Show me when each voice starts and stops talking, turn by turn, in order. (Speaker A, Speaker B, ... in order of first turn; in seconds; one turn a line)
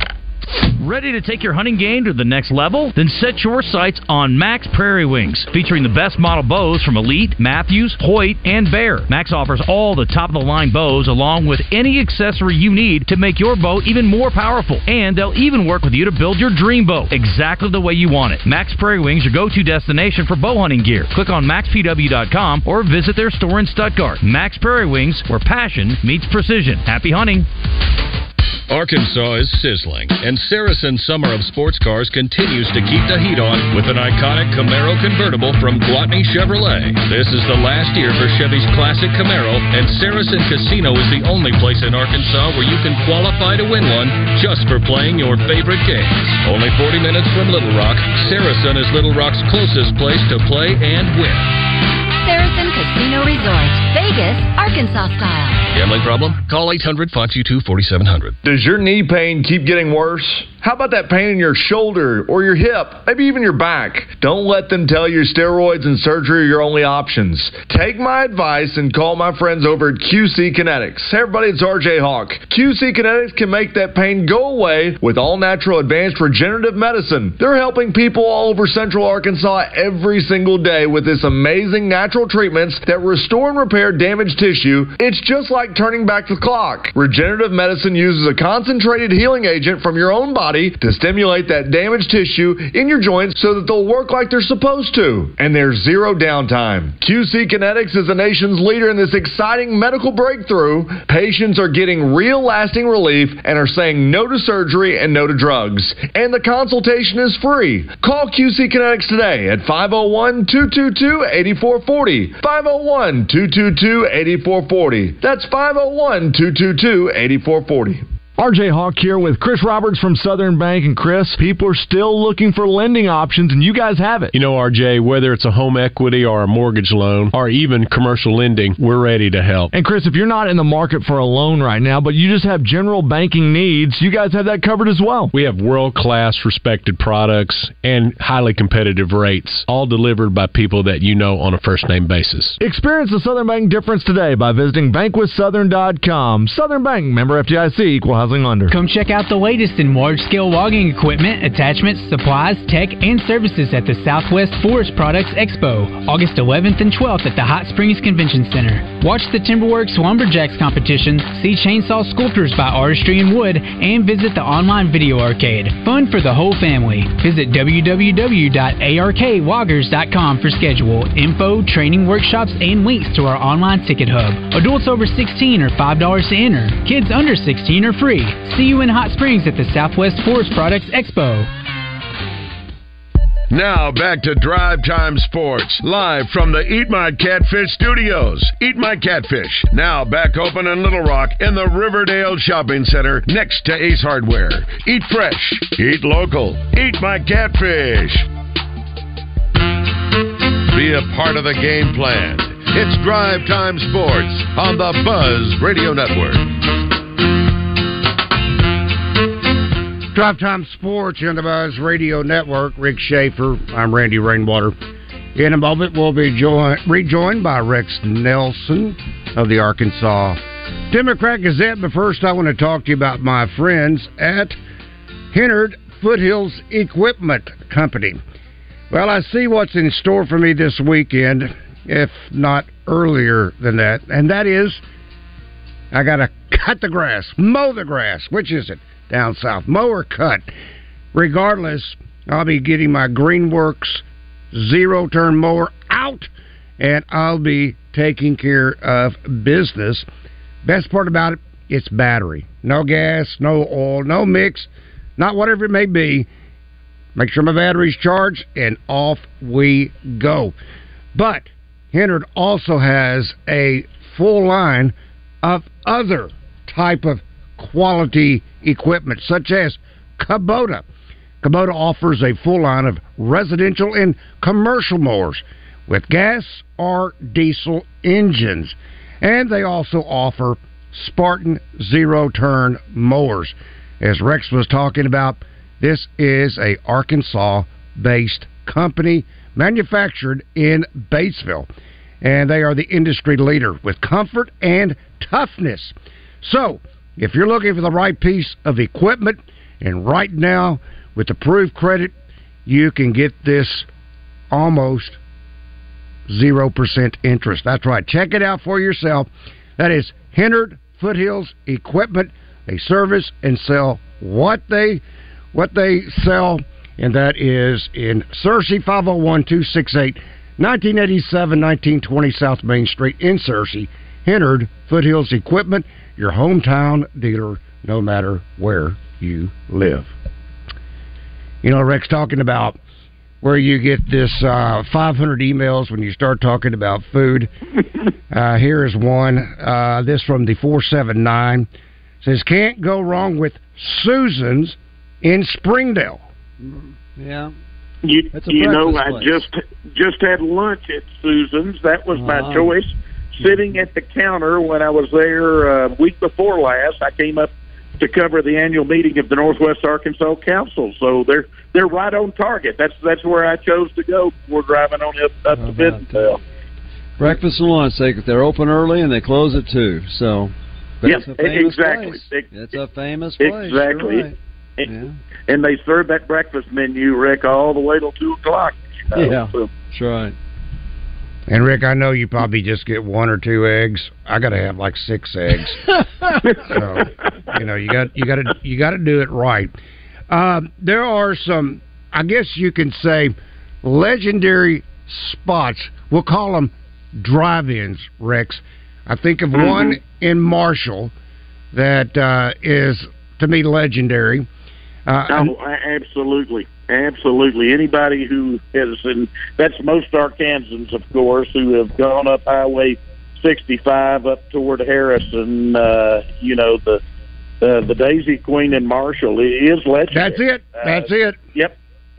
Speaker A: 0.8-27.5
Speaker B: 28.7-51.5
Speaker C: 52.2-55.6
Speaker B: 55.7-58.4
Speaker D: 58.4-118.1
Speaker E: 118.4-124.3
Speaker F: 124.4-129.6
Speaker E: 129.7-135.4
Speaker F: 137.1-139.8
Speaker F: 140.3-142.3
Speaker E: 142.6-148.7
Speaker G: 148.7-181.5
Speaker H: 183.5-198.3
Speaker H: 200.7-206.5
Speaker I: 210.1-214.7
Speaker I: 215.3-220.4
Speaker I: 220.9-224.6
Speaker I: 225.3-228.2
Speaker I: 228.9-234.8
Speaker I: 235.9-240.5
Speaker I: 241.1-250.1
Speaker I: 250.6-256.3
Speaker I: 257.2-260.6
Speaker I: 261.1-270.9
Speaker I: 271.4-291.7
Speaker I: 292.2-302.1
Speaker I: 302.7-303.9
Speaker I: 304.5-305.2
Speaker I: 306.3-330.1
Speaker I: 331.6-332.8
Speaker I: 333.4-337.5
Speaker I: 338.3-341.7
Speaker I: 342.2-346.2
Speaker J: 346.6-347.5
Speaker K: 348.0-366.4
Speaker J: 348.3-349.4
Speaker J: 352.1-352.7
Speaker J: 353.4-353.8
Speaker J: 365.5-366.3
Speaker J: 367.2-374.3
Speaker K: 371.1-372.5
Speaker K: 373.4-374.3
Speaker J: 374.9-375.2
Speaker K: 375.5-379.7
Speaker J: 379.1-380.4
Speaker I: 381.5-385.8
Speaker K: 386.6-387.1
Speaker I: 386.6-389.7
Speaker I: 390.3-401.1
Speaker K: 399.6-400.0
Speaker I: 401.7-404.5
Speaker I: 405.1-405.5
Speaker K: 405.3-417.0
Speaker K: 417.6-421.8
Speaker I: 420.1-421.4